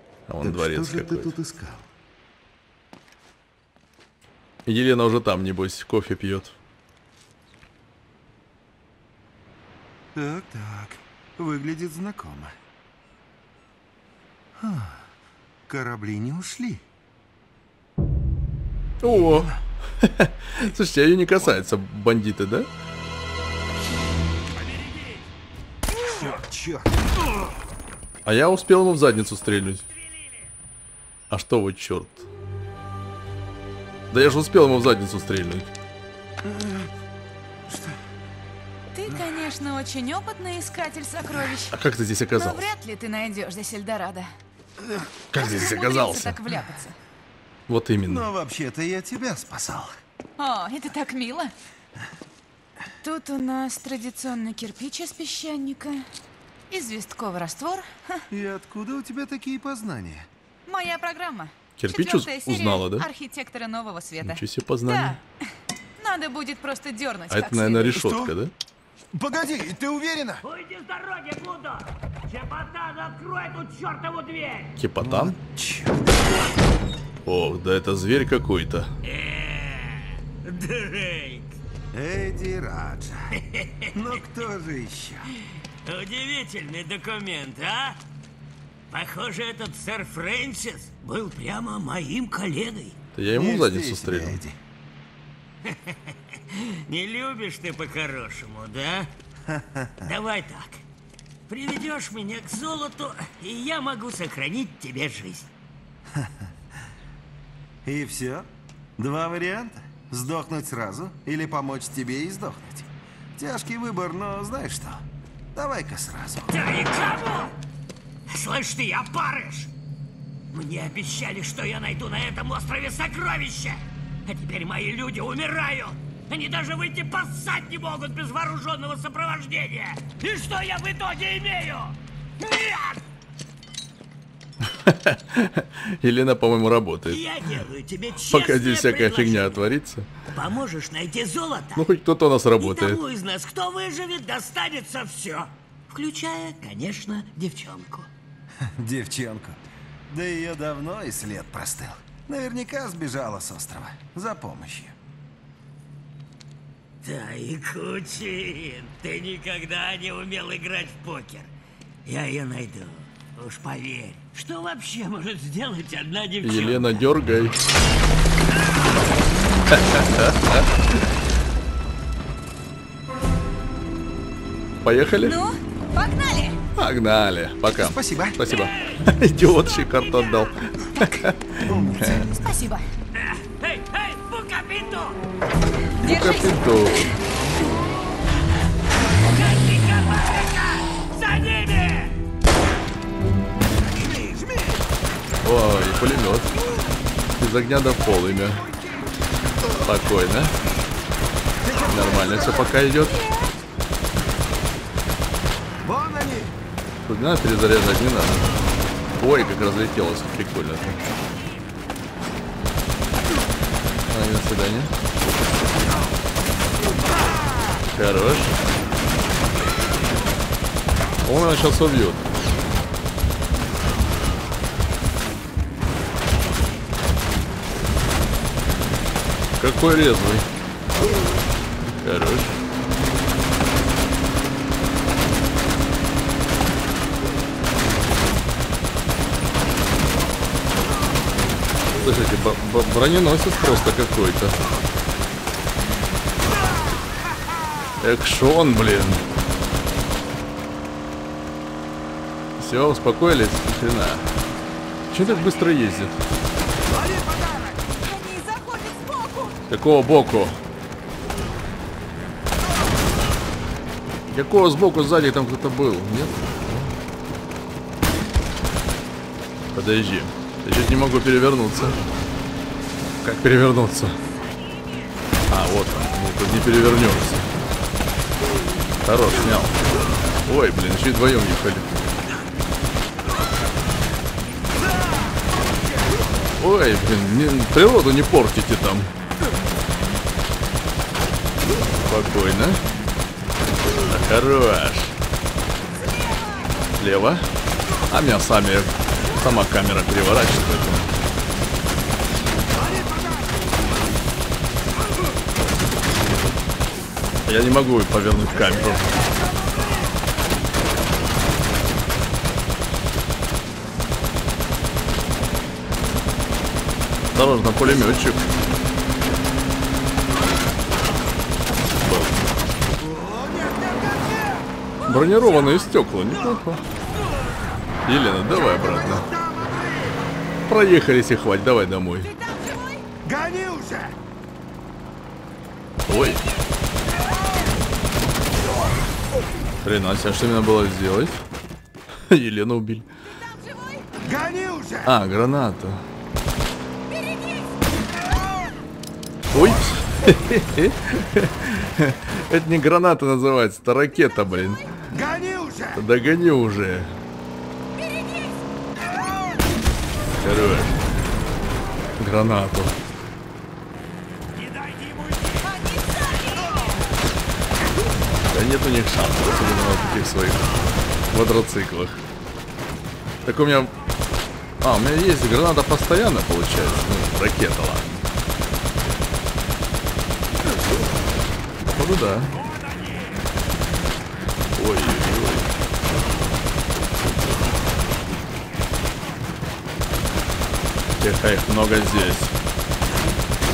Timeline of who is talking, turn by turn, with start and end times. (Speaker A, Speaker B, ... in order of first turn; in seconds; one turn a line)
Speaker A: 0.3-1.4
Speaker B: 0.4-1.9
Speaker A: 4.7-6.6
Speaker B: 10.2-12.6
Speaker B: 14.6-15.1
Speaker B: 15.7-16.8
Speaker A: 19.0-22.7
Speaker B: 19.1-19.6
Speaker B: 25.9-27.2
Speaker A: 28.2-29.9
Speaker A: 31.3-32.3
Speaker A: 34.1-35.7
Speaker B: 36.4-36.9
Speaker B: 37.7-38.0
Speaker C: 38.9-41.8
Speaker A: 41.7-42.7
Speaker C: 42.4-44.3
Speaker B: 44.8-45.1
Speaker A: 45.3-46.4
Speaker C: 45.3-47.0
Speaker A: 47.7-48.3
Speaker B: 48.1-49.9
Speaker C: 50.4-51.5
Speaker C: 53.0-56.1
Speaker C: 56.7-58.3
Speaker B: 58.3-60.3
Speaker C: 60.7-65.2
Speaker A: 61.8-63.1
Speaker A: 64.2-65.2
Speaker C: 66.0-68.0
Speaker A: 67.3-68.5
Speaker B: 67.9-68.4
Speaker B: 69.1-70.4
Speaker D: 70.4-74.8
Speaker A: 74.8-75.4
Speaker B: 75.0-76.4
Speaker A: 77.2-78.9
Speaker D: 79.0-81.5
Speaker B: 81.9-83.4
Speaker D: 83.3-84.0
Speaker B: 83.9-85.3
Speaker D: 85.8-88.0
Speaker D: 88.9-93.0
Speaker A: 93.2-94.4
Speaker B: 93.3-94.6
Speaker D: 95.6-99.1
Speaker B: 99.5-100.1
Speaker D: 100.0-100.8
Speaker D: 101.5-105.5
Speaker B: 106.1-106.5
Speaker B: 107.8-116.7
Speaker D: 116.5-117.5
Speaker D: 118.3-119.7
Speaker D: 120.5-133.0
Speaker A: 134.6-137.2
Speaker D: 137.1-139.7
Speaker A: 138.3-140.1
Speaker D: 140.3-141.9
Speaker A: 141.8-143.0
Speaker D: 142.6-148.1
Speaker B: 148.6-154.9
Speaker D: 157.0-161.5
Speaker D: 162.1-167.0
Speaker A: 166.4-167.6
Speaker A: 169.7-171.1
Speaker A: 174.8-175.4
Speaker C: 175.2-176.6
Speaker A: 176.8-182.3
Speaker B: 177.8-178.4
Speaker D: 178.4-180.6
Speaker B: 181.1-182.5
Speaker C: 182.3-182.9
Speaker D: 183.1-185.2
Speaker A: 186.0-187.2
Speaker C: 186.0-187.1
Speaker D: 189.2-192.2
Speaker B: 193.9-194.8
Speaker A: 195.4-196.5
Speaker A: 197.4-198.6
Speaker A: 199.8-200.6
Speaker B: 201.6-202.8
Speaker A: 201.8-203.2
Speaker B: 205.8-206.6
Speaker A: 207.0-208.5
Speaker A: 209.2-211.0
Speaker A: 214.1-214.9
Speaker A: 217.8-218.6
Speaker A: 221.2-222.3
Speaker A: 229.6-230.5
Speaker A: 231.9-232.6
Speaker A: 241.9-244.6
Speaker A: 248.0-249.2
Speaker A: 252.6-254.3
Speaker A: 255.1-256.2
Speaker B: 256.9-257.8
Speaker C: 258.0-259.6
Speaker A: 259.7-260.6
Speaker A: 264.3-266.9
Speaker A: 269.7-272.1
Speaker A: 273.2-274.2
Speaker A: 275.5-277.5
Speaker A: 279.0-279.9
Speaker A: 280.4-282.0
Speaker B: 284.9-286.2
Speaker A: 286.6-289.1
Speaker A: 292.0-292.8
Speaker A: 293.9-295.1
Speaker A: 297.0-297.5
Speaker A: 298.1-301.1
Speaker B: 302.8-303.7
Speaker A: 307.5-309.1
Speaker B: 309.5-309.9
Speaker A: 317.4-318.5
Speaker A: 322.0-322.5
Speaker B: 323.0-324.7
Speaker A: 325.1-326.8
Speaker A: 328.1-329.3
Speaker B: 328.5-330.3
Speaker A: 330.7-332.3
Speaker C: 332.2-333.1
Speaker B: 333.2-334.2
Speaker A: 336.1-336.4
Speaker A: 339.8-341.4
Speaker A: 342.3-343.1
Speaker C: 343.3-344.1
Speaker B: 344.2-345.2
Speaker A: 345.1-346.0
Speaker C: 347.1-347.7
Speaker A: 349.5-355.0
Speaker B: 349.6-349.8
Speaker B: 355.1-356.0
Speaker A: 355.9-357.2
Speaker C: 358.1-358.5
Speaker A: 360.3-361.0
Speaker A: 362.2-363.0
Speaker D: 364.5-365.7
Speaker C: 365.7-366.8
Speaker A: 368.5-370.7
Speaker A: 371.3-372.2
Speaker A: 373.4-373.9
Speaker A: 374.8-378.2
Speaker A: 381.9-382.6
Speaker A: 384.8-385.8
Speaker A: 391.2-392.6